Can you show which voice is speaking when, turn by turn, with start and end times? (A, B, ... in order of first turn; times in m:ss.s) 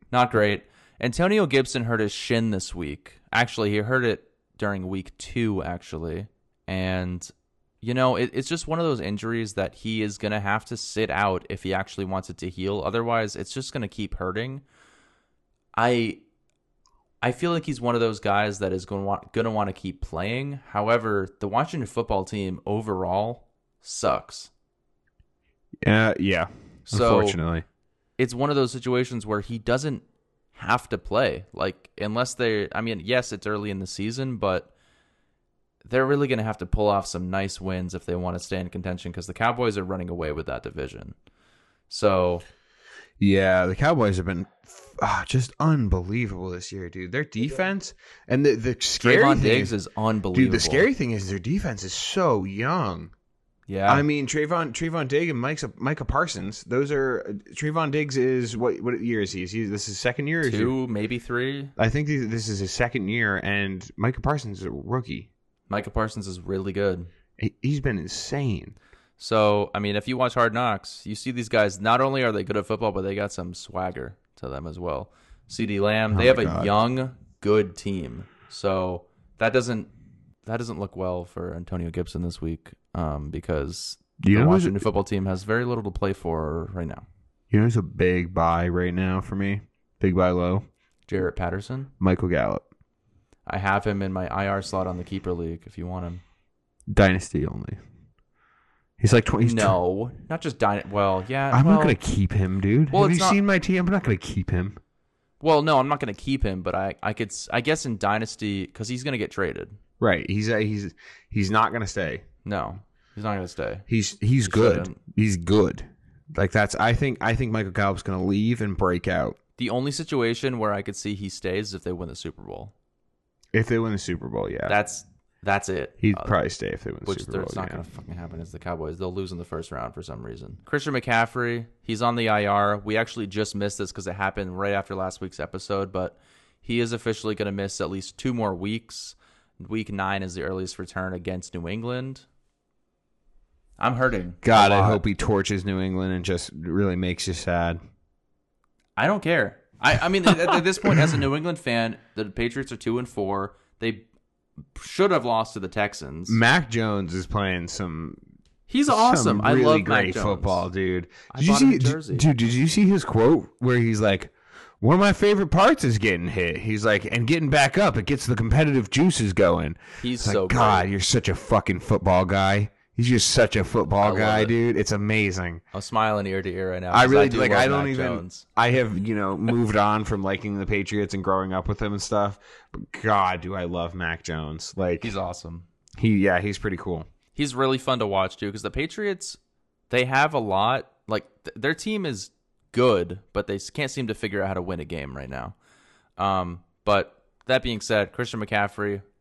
0:00.1-0:14.6 A
0:15.8-0:16.2 A
0:17.2-0:24.5 A
0:25.8-0:27.6 B
0:26.9-0:27.4 A
0:28.2-0:30.0 A
0:30.5-0:34.7 A
0:35.8-0:41.1 A
0:41.9-0:42.4 A
0:43.2-0:49.7 B
0:49.0-0:50.9 A
0:50.3-0:53.1 B
0:53.7-0:54.0 A
0:53.9-1:00.7 B
1:00.4-1:01.7 A
1:01.8-1:05.3 B
1:05.7-1:07.1 A
1:07.4-1:08.8 B
1:09.2-1:19.9 A
1:16.1-1:16.7 B
1:20.4-1:27.0 A
1:24.2-1:24.8 B
1:27.5-1:30.7 B
1:31.1-1:31.9 A
1:32.0-1:32.6 B
1:33.4-1:36.2 A
1:36.9-1:37.8 B
1:39.0-1:39.8 B
1:39.4-1:42.0 A
1:41.5-1:44.8 B
1:42.9-1:43.4 A
1:45.4-1:49.8 A
1:50.0-1:52.2 B
1:52.4-1:53.8 A
1:53.9-1:59.4 B
1:54.4-1:55.0 A
1:59.6-2:02.7 A
2:03.5-2:04.8 B
2:04.7-2:06.3 A
2:06.0-2:07.8 B
2:07.0-2:22.2 A
2:23.8-2:25.0 A
2:24.4-2:27.8 B
2:29.0-2:34.0 A
2:30.3-2:31.1 B
2:34.7-2:36.4 A
2:36.3-2:38.2 B
2:38.7-2:40.6 A
2:38.9-2:55.6 B
2:41.3-2:42.3 A
2:50.0-2:50.9 A
2:54.0-2:54.5 A
2:55.7-2:58.4 A
2:56.9-3:05.1 B
3:05.0-3:05.7 A
3:06.0-3:07.1 B
3:07.3-3:09.4 A
3:09.9-3:15.5 A
3:16.2-3:19.0 A